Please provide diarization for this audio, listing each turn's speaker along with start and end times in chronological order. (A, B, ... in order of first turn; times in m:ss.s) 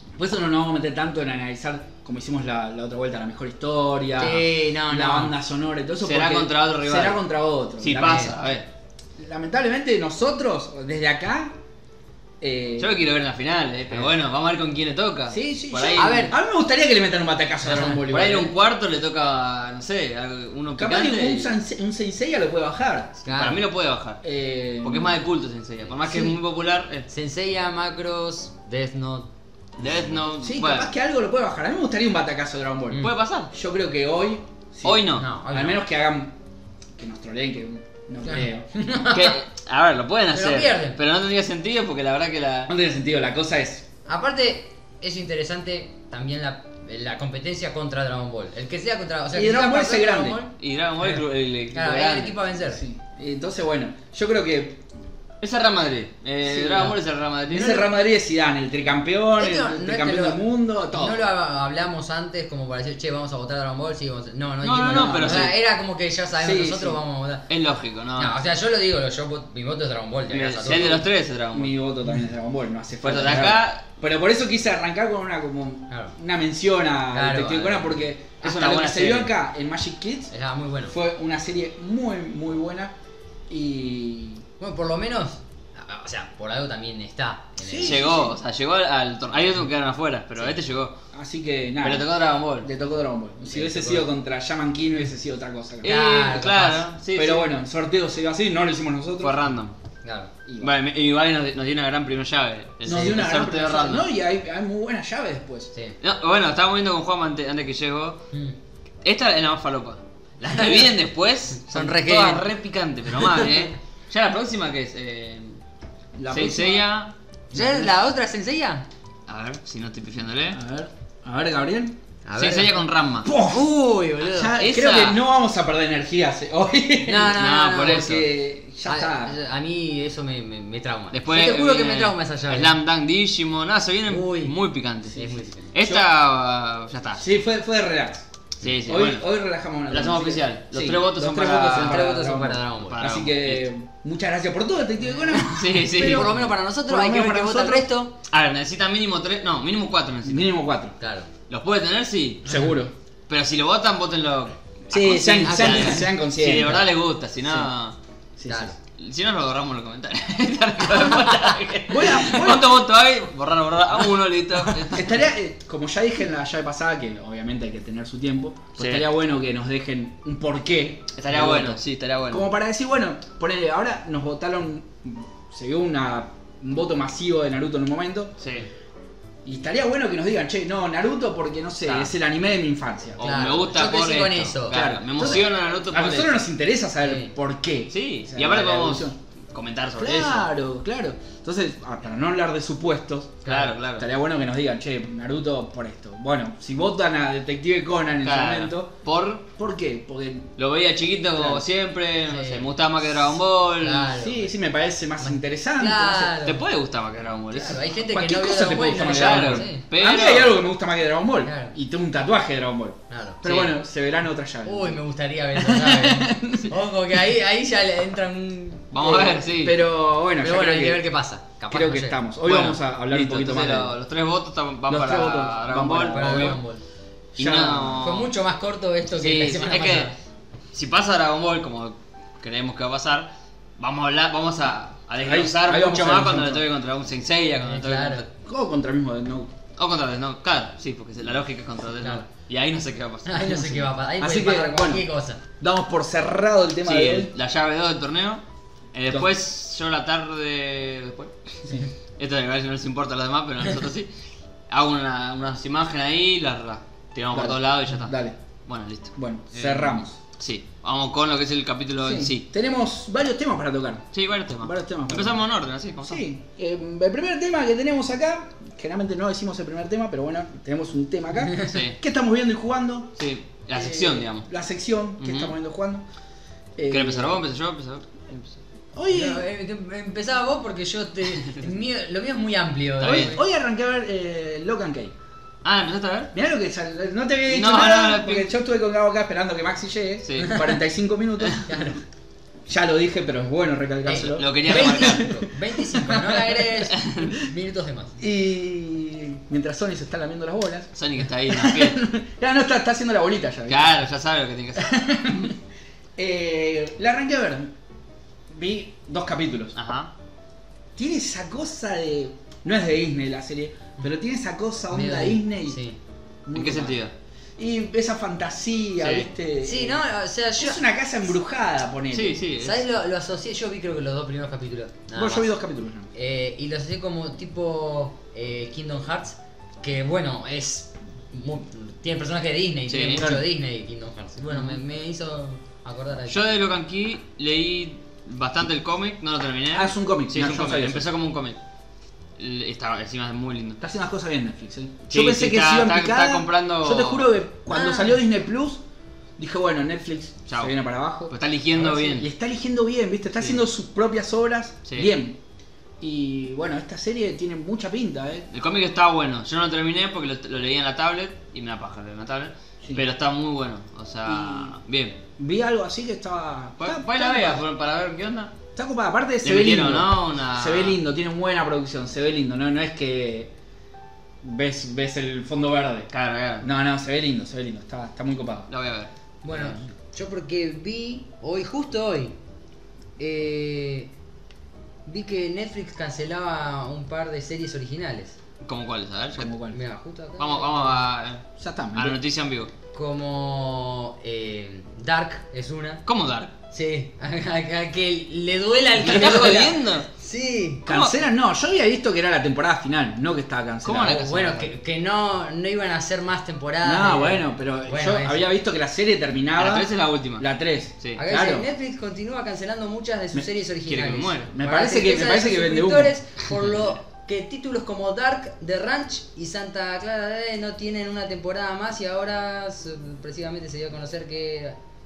0:00.2-0:08.4 A
0:04.2-0:05.3 B
0:06.0-0:07.2 C
0:07.8-0:08.7 C
0:08.0-0:08.3 B
0:09.2-0:11.6 A
0:12.4-0:13.0 A
0:12.8-0:16.4 C
0:15.3-0:18.5 A
0:15.9-0:16.4 B
0:17.6-0:18.0 B
0:17.8-0:21.5 C
0:20.8-0:23.2 A
0:23.2-0:23.6 B
0:23.3-0:24.2 C
0:24.2-0:25.2 A
0:24.8-0:27.1 C
0:27.1-0:29.3 B
0:29.8-0:30.9 C
0:30.4-0:36.4 A
0:33.0-0:33.5 C
0:34.8-0:35.2 C
0:35.1-0:35.8 B
0:37.0-0:38.7 A
0:38.3-0:39.4 B
0:39.1-0:42.7 C
0:40.3-0:41.0 B
0:42.7-0:43.8 A
0:44.0-0:52.8 B
0:49.3-0:50.4 A
0:50.6-0:52.4 C
0:52.7-0:54.8 A
0:55.4-0:57.9 C
0:56.4-0:56.9 A
0:57.5-1:01.3 A
0:59.4-1:07.5 B
1:04.6-1:05.5 C
1:04.9-1:05.6 A
1:06.4-1:07.0 A
1:07.5-1:08.3 C
1:08.2-1:11.0 B
1:10.3-1:11.7 C
1:10.7-1:11.0 A
1:11.5-1:20.3 A
1:13.0-1:13.8 C
1:17.1-1:18.0 B
1:18.4-1:19.3 C
1:20.3-1:20.9 B
1:20.9-1:22.9 A
1:23.5-1:24.4 A
1:24.6-1:28.0 B
1:27.6-1:28.4 A
1:27.8-1:31.0 C
1:31.1-1:36.0 A
1:31.8-1:32.7 C
1:33.4-1:34.0 B
1:35.8-1:36.9 B
1:35.8-1:37.5 C
1:37.1-1:39.4 A
1:39.2-1:39.7 C
1:40.0-1:40.3 B
1:40.4-1:40.7 A
1:40.6-1:44.1 C
1:42.8-1:45.7 A
1:46.0-1:48.2 C
1:49.0-1:55.6 C
1:50.5-1:50.9 B
1:51.7-1:52.4 B
1:53.2-1:53.6 B
1:56.2-1:56.9 A
1:56.3-1:57.1 C
1:57.5-1:58.8 B
1:57.5-1:58.0 A
1:59.3-2:00.6 C
2:00.5-2:02.0 A
2:02.2-2:02.8 B
2:02.4-2:03.3 C
2:03.2-2:09.4 A
2:03.4-2:04.6 B
2:04.6-2:05.2 C
2:07.0-2:08.3 B
2:07.3-2:08.2 C
2:08.8-2:12.8 B
2:11.1-2:17.3 C
2:14.1-2:14.5 B
2:15.1-2:16.1 A
2:15.1-2:15.7 B
2:17.2-2:18.2 A
2:18.6-2:19.2 C
2:18.8-2:27.8 A
2:19.9-2:22.1 C
2:21.7-2:23.0 B
2:22.9-2:23.7 C
2:25.0-2:28.1 B
2:25.5-2:26.3 C
2:28.3-2:30.5 C
2:30.2-2:31.0 A
2:31.0-2:31.3 B
2:31.5-2:32.5 C
2:32.4-2:32.9 A
2:33.3-2:38.0 C
2:34.9-2:36.8 A
2:34.9-2:36.1 B
2:38.4-2:38.7 A
2:38.5-2:38.8 B
2:38.9-2:45.1 C
2:41.9-2:42.8 A
2:44.9-2:58.4 A
2:48.8-2:49.1 C
2:51.2-2:52.4 C
2:58.4-2:58.7 C
2:59.4-3:03.5 A
3:03.2-3:06.4 C
3:03.2-3:05.4 B
3:04.7-3:09.2 A
3:07.0-3:07.3 B
3:07.9-3:10.5 C
3:10.0-3:19.0 A
3:13.4-3:13.7 B
3:13.4-3:14.0 C
3:18.2-3:19.4 C
3:19.5-3:20.5 A
3:20.6-3:24.1 C
3:21.3-3:21.6 A
3:22.3-3:22.7 B
3:23.8-3:24.5 B
3:24.2-3:26.3 A
3:25.2-3:26.6 B
3:26.4-3:27.8 C
3:27.5-3:29.8 B
3:28.1-3:35.0 A
3:29.0-3:30.6 C
3:31.4-3:31.7 B
3:33.1-3:33.4 B
3:33.4-3:33.7 C
3:34.6-3:39.2 B
3:35.5-3:36.7 A
3:38.9-3:39.8 C
3:38.9-3:41.0 A
3:40.4-3:42.2 B
3:41.7-3:43.9 A
3:42.4-3:46.6 C
3:44.9-3:46.6 A
3:46.1-3:46.8 B
3:47.4-3:48.1 A
3:47.4-3:48.3 C
3:48.0-3:50.1 B
3:49.2-3:50.1 C
3:50.7-3:58.3 C
3:55.2-3:56.6 A
3:57.6-3:58.2 B
3:58.4-3:59.5 A
3:59.8-4:03.7 C
4:03.2-4:05.4 B
4:03.6-4:05.0 A
4:05.6-4:07.3 A
4:06.8-4:08.4 C
4:08.9-4:11.3 C
4:12.2-4:14.1 C
4:14.7-4:18.1 C
4:17.3-4:18.4 A
4:18.7-4:22.4 C
4:19.2-4:20.2 A
4:22.0-4:25.4 A
4:24.1-4:26.2 C
4:26.0-4:33.2 A
4:31.5-4:32.0 C
4:33.2-4:34.5 C
4:33.7-4:36.0 A
4:35.2-4:35.5 C
4:36.8-4:37.4 A
4:36.9-4:38.6 C
4:38.9-4:39.4 A
4:39.1-4:43.4 B
4:43.0-4:43.4 C
4:43.0-4:45.1 A
4:45.6-4:46.3 C
4:46.3-4:52.0 A
4:47.5-4:48.5 C
4:50.2-4:50.6 C
4:51.6-4:52.0 B
4:52.7-4:56.9 A
4:54.0-4:58.2 B
4:54.1-4:55.2 C
4:56.9-4:57.3 C
4:58.2-5:00.9 A
5:01.0-5:02.0 C
5:01.4-5:04.0 A
5:03.7-5:05.5 C
5:04.8-5:05.5 A
5:06.2-5:07.7 A
5:08.5-5:09.7 A
5:09.8-5:10.1 C
5:11.0-5:15.8 A
5:14.9-5:16.0 B
5:16.4-5:17.0 A
5:16.5-5:17.1 C
5:17.6-5:20.0 A
5:19.0-5:19.3 C
5:19.6-5:20.8 B
5:20.6-5:22.4 A
5:22.1-5:22.8 C
5:22.6-5:25.5 B
5:25.1-5:26.1 A
5:26.1-5:36.4 B
5:32.9-5:33.2 C
5:33.1-5:33.4 A
5:36.3-5:41.6 C
5:39.7-5:41.1 A
5:42.4-5:43.8 C
5:43.8-5:48.8 A
5:45.1-5:47.3 C
5:47.7-5:48.2 B
5:49.4-5:55.4 A
5:50.5-5:50.7 C
5:51.3-5:52.3 C
5:54.8-5:55.1 C
5:56.0-5:58.5 A
5:58.5-6:05.2 C
6:04.2-6:04.8 A
6:05.4-6:07.6 A
6:06.8-6:08.5 C
6:08.8-6:13.5 A
6:09.4-6:11.0 C
6:14.4-6:16.1 A
6:16.1-6:16.7 C
6:16.6-6:18.7 A
6:18.7-6:19.8 C
6:19.4-6:22.4 B
6:23.2-6:24.1 B
6:25.0-6:28.4 B
6:28.6-6:29.5 C
6:29.3-6:29.8 A
6:29.7-6:31.0 B
6:30.4-6:32.7 C
6:31.6-6:32.2 A
6:32.9-6:36.0 B
6:36.0-6:36.5 C
6:36.7-6:40.8 B
6:39.0-6:40.1 C
6:40.8-6:44.3 A
6:40.9-6:41.2 C
6:43.8-6:44.7 C
6:44.0-6:48.4 B
6:46.8-6:51.7 A
6:49.6-6:50.4 C
6:51.2-7:04.8 B
6:53.9-6:54.5 C
6:54.5-6:56.1 A